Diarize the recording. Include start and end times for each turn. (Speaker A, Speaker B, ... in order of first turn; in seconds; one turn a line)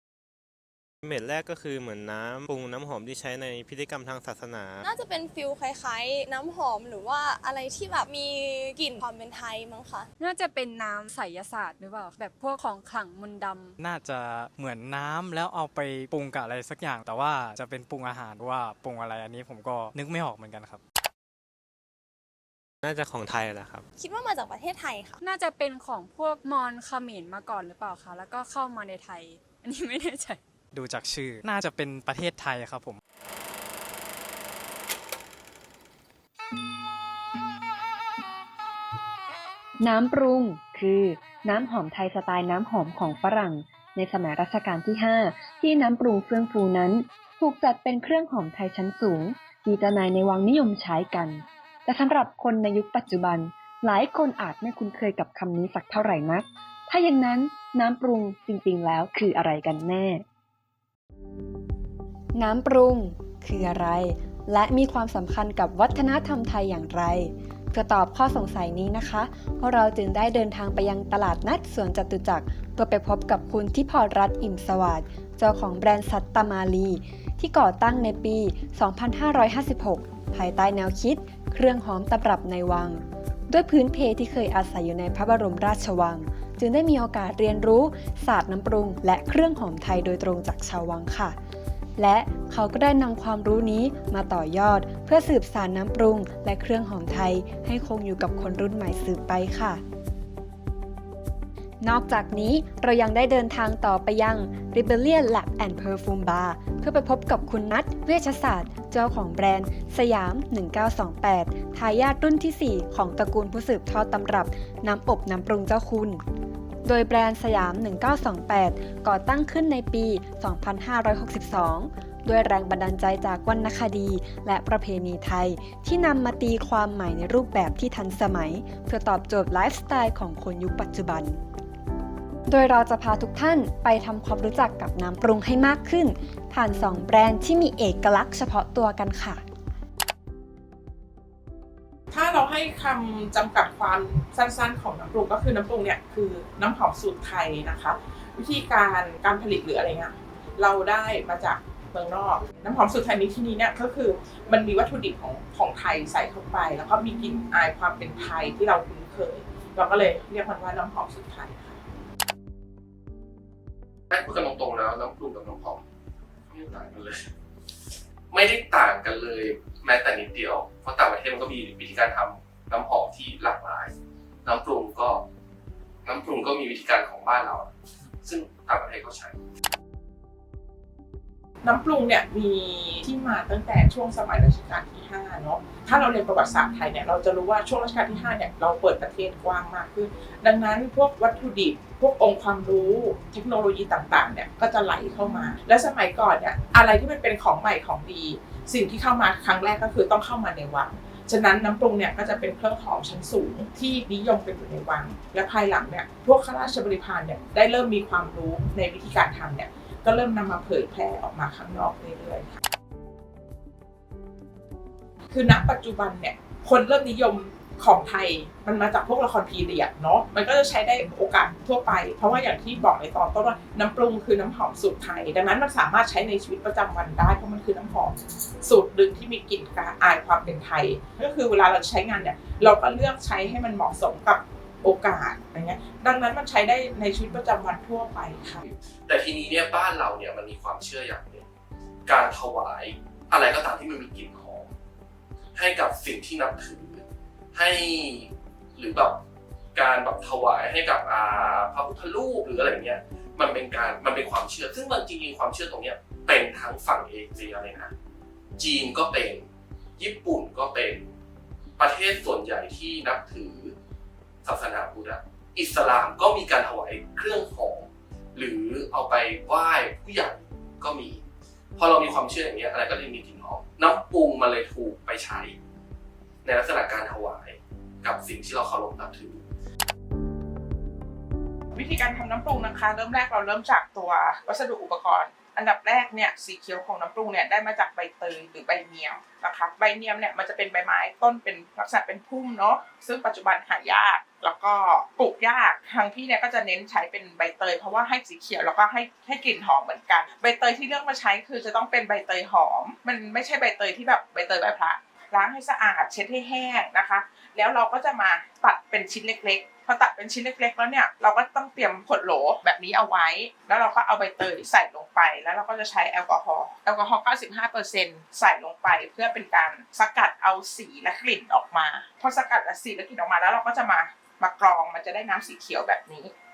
Speaker A: 1.0-4.9
Speaker B: 4.8-10.1
Speaker C: 10.2-13.8
Speaker D: 13.8-20.8
Speaker A: 22.8-23.8
Speaker B: 24.0-25.2
Speaker C: 25.2-30.4
Speaker D: 30.7-33.0
Speaker E: 39.8-60.2
Speaker E: 62.3-91.3
Speaker E: 92.0-99.8
Speaker E: 101.8-116.2
Speaker E: 116.8-131.4
Speaker E: 132.5-139.4
Speaker F: 142.1-161.8
Speaker G: 164.1-165.8
Speaker G: 166.5-167.3
Speaker G: 168.3-173.9
Speaker G: 174.4-175.2
Speaker G: 176.0-177.7
Speaker G: 178.2-179.4
Speaker F: 181.6-212.6
Speaker F: 215.3-238.7
Speaker G: 239.1-241.4
Speaker G: 242.1-244.7
Speaker G: 245.5-249.2
Speaker G: 249.7-257.9
Speaker G: 258.6-259.5
Speaker G: 260.0-261.1
Speaker G: 261.8-263.7
Speaker G: 264.4-271.2
Speaker G: 271.8-275.6
Speaker G: 276.4-279.4
Speaker F: 281.7-326.3